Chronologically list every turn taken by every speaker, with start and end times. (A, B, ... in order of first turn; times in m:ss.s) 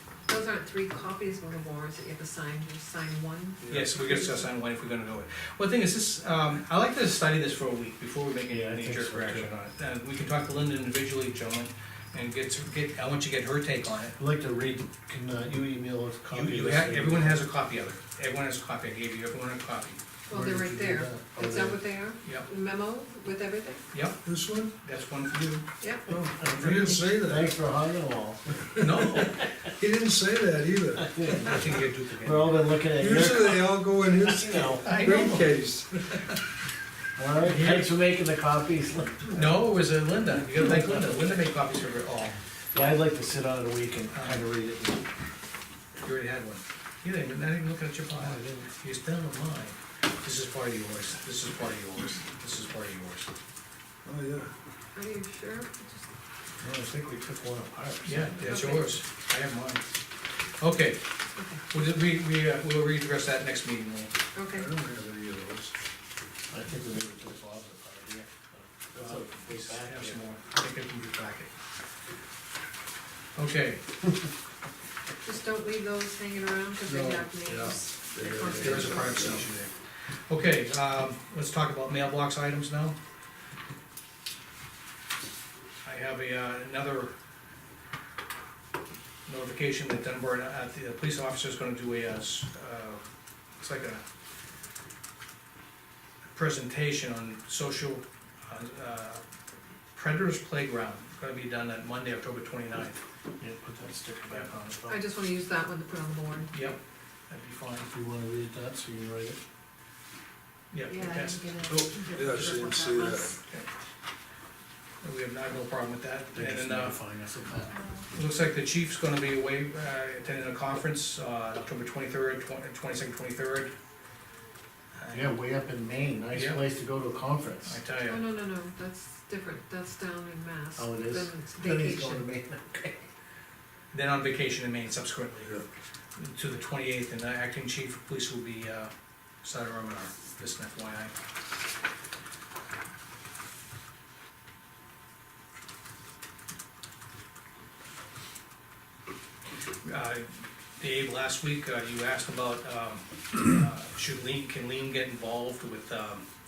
0:00.3-0:04.5 A
0:03.6-0:04.0 B
0:03.7-0:14.2 C
0:08.5-0:09.5 D
0:14.2-0:17.4 D
0:16.3-0:20.0 C
0:20.3-0:23.8 A
0:20.3-0:21.8 D
0:23.9-0:24.2 C
0:24.2-0:24.8 B
0:24.8-0:25.7 C
0:25.8-0:26.1 A
0:26.1-0:27.5 B
0:26.4-0:29.4 D
0:28.8-0:31.5 B
0:28.8-0:29.5 C
0:31.1-0:31.6 D
0:31.4-0:32.7 C
0:32.2-0:35.0 D
0:33.0-0:36.3 B
0:34.8-0:35.5 C
0:37.2-0:39.5 D
0:37.4-0:37.9 C
0:39.3-0:42.4 C
0:42.7-0:45.0 D
0:44.1-0:44.4 C
0:46.0-0:53.3 C
0:48.2-0:48.7 D
0:54.0-0:54.5 B
0:54.9-0:56.1 A
0:56.6-0:58.5 D
0:58.0-0:59.8 C
0:58.4-0:59.0 A
1:00.6-1:01.0 C
1:01.4-1:01.6 A
1:01.7-1:04.1 C
1:04.3-1:04.7 A
1:04.5-1:05.7 B
1:06.5-1:10.3 D
1:08.9-1:11.5 C
1:13.4-1:13.8 C
1:15.2-1:19.3 A
1:16.8-1:19.5 B
1:18.6-1:19.7 C
1:20.3-1:23.0 C
1:25.8-1:27.1 C
1:29.3-1:33.0 C
1:33.6-1:34.0 C
1:36.3-1:39.2 C
1:39.9-1:43.0 C
1:43.4-1:45.0 D
1:44.9-1:46.5 A
1:46.5-1:47.9 C
1:47.7-1:49.4 D
1:50.7-1:51.4 C
1:50.9-1:53.4 A
1:51.7-1:53.3 B
1:55.0-1:57.0 C
1:56.3-1:57.8 D
1:58.1-2:03.7 C
2:05.0-2:05.3 C
2:05.1-2:07.8 D
2:06.3-2:06.6 C
2:07.6-2:08.2 C
2:08.0-2:12.2 A
2:10.8-2:13.1 D
2:13.9-2:15.6 C
2:16.2-2:18.9 C
2:19.4-2:21.1 C
2:29.8-2:36.2 C